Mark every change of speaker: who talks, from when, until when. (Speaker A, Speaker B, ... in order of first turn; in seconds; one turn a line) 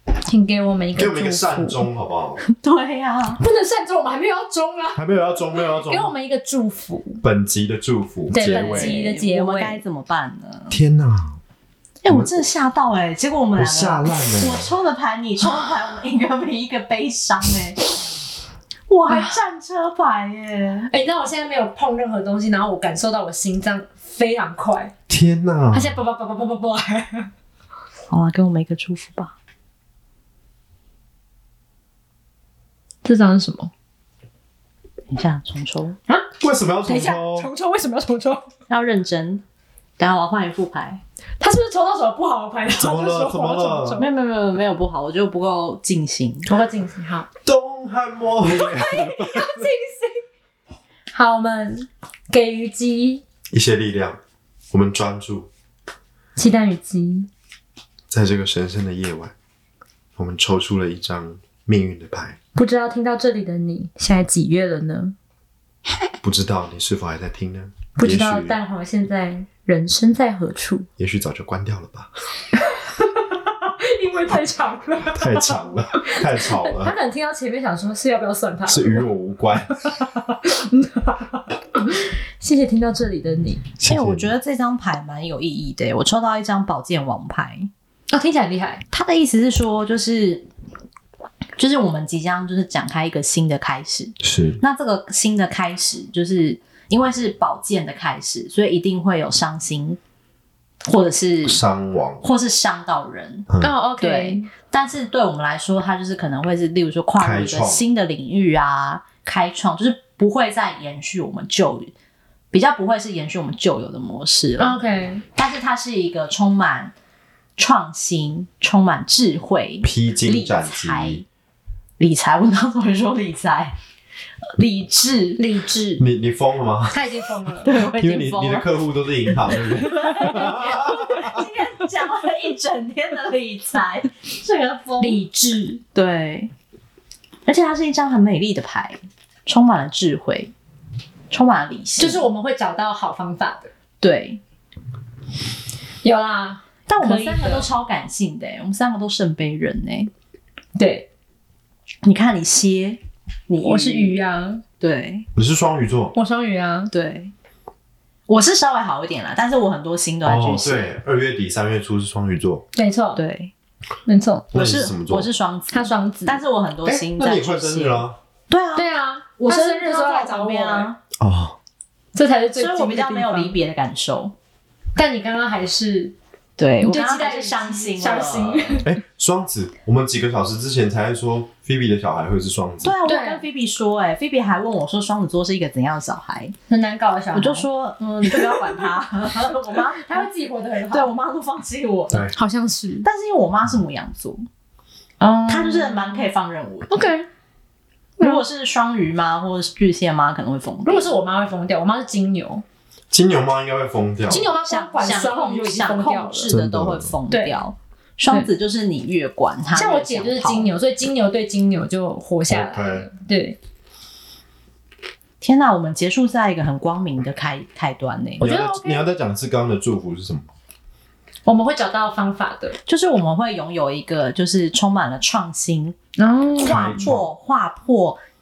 Speaker A: 0.3-1.9
Speaker B: 0.9-2.4
Speaker C: 2.4-3.4
Speaker A: 3.4-5.0
Speaker B: 5.0-6.1
Speaker A: 5.6-7.2
Speaker B: 7.2-9.0
Speaker A: 8.3-9.8
Speaker C: 8.4-10.8
Speaker B: 10.7-11.4
Speaker C: 12.0-17.8
Speaker B: 13.6-14.7
Speaker C: 18.9-20.9
Speaker A: 19.1-19.4
Speaker A: 20.9-24.9
Speaker B: 25.1-26.0
Speaker A: 25.7-27.3
Speaker C: 28.1-29.4
Speaker A: 33.0-33.7
Speaker C: 35.1-36.0
Speaker B: 36.4-37.5
Speaker A: 36.9-38.5
Speaker C: 38.7-39.4
Speaker C: 40.0-41.0
Speaker A: 41.4-44.1
Speaker B: 42.8-44.0
Speaker C: 44.0-46.5
Speaker A: 46.5-47.3
Speaker B: 47.4-49.7
Speaker A: 48.5-50.2
Speaker A: 51.1-53.2
Speaker B: 53.5-54.2
Speaker B: 54.7-55.5
Speaker A: 56.4-57.3
Speaker B: 58.1-59.3
Speaker B: 60.2-62.4
Speaker A: 62.5-65.2
Speaker B: 66.2-68.6
Speaker A: 68.0-70.9
Speaker B: 71.0-72.1
Speaker A: 72.6-79.1
Speaker B: 75.1-77.0
Speaker B: 78.7-79.8
Speaker A: 79.9-83.6
Speaker B: 83.8-84.3
Speaker C: 83.9-87.7
Speaker A: 88.1-88.8
Speaker C: 88.9-90.5
Speaker C: 91.6-100.0
Speaker B: 94.2-94.6
Speaker C: 100.9-101.6
Speaker B: 101.5-102.2
Speaker C: 102.2-111.9
Speaker A: 103.6-104.5
Speaker B: 107.2-107.8
Speaker C: 112.5-114.8
Speaker A: 114.6-115.2
Speaker C: 115.3-116.9
Speaker C: 117.6-121.2
Speaker B: 119.8-121.2
Speaker C: 122.0-123.7
Speaker C: 124.6-125.4
Speaker A: 125.4-126.1
Speaker B: 126.0-127.1
Speaker A: 126.9-127.9
Speaker C: 127.6-128.7
Speaker B: 127.9-131.4
Speaker C: 129.8-135.2
Speaker A: 135.0-135.8
Speaker C: 135.9-136.5
Speaker C: 137.5-140.5
Speaker C: 141.3-142.2
Speaker A: 142.0-143.7
Speaker C: 144.0-144.4
Speaker A: 146.0-147.7
Speaker C: 146.9-150.1
Speaker A: 150.8-151.1
Speaker C: 152.0-154.2
Speaker A: 153.6-154.6
Speaker C: 154.8-155.3
Speaker B: 155.3-156.2
Speaker A: 156.2-156.9
Speaker C: 156.9-157.3
Speaker C: 158.3-160.9
Speaker B: 160.2-162.6
Speaker A: 162.7-163.2
Speaker C: 163.2-163.5
Speaker A: 164.1-164.5
Speaker B: 164.5-165.3
Speaker C: 164.5-171.0
Speaker A: 165.7-166.4
Speaker B: 166.9-168.2
Speaker A: 168.8-170.9
Speaker B: 171.2-171.6
Speaker A: 172.2-173.6
Speaker C: 172.5-174.3
Speaker A: 175.0-176.2
Speaker C: 176.6-178.8
Speaker A: 176.8-178.9
Speaker B: 178.8-182.9
Speaker C: 182.8-186.5
Speaker A: 183.1-183.4
Speaker A: 186.7-187.7
Speaker C: 187.3-190.3
Speaker A: 188.3-188.7
Speaker A: 189.9-191.1
Speaker C: 190.9-192.3
Speaker A: 192.3-193.1
Speaker C: 193.0-194.5
Speaker A: 195.2-196.3
Speaker C: 195.5-197.0
Speaker A: 196.9-197.3
Speaker C: 198.2-201.1
Speaker A: 200.8-202.6
Speaker B: 203.1-204.5
Speaker A: 204.3-206.6
Speaker C: 204.6-210.7
Speaker B: 206.5-207.1
Speaker A: 207.3-207.6
Speaker A: 209.7-213.6
Speaker B: 212.5-213.1
Speaker C: 215.4-218.5
Speaker B: 218.4-220.5
Speaker A: 218.4-219.1
Speaker A: 221.4-222.8
Speaker C: 222.9-226.0
Speaker A: 226.2-227.0
Speaker C: 226.6-228.2
Speaker B: 226.6-227.3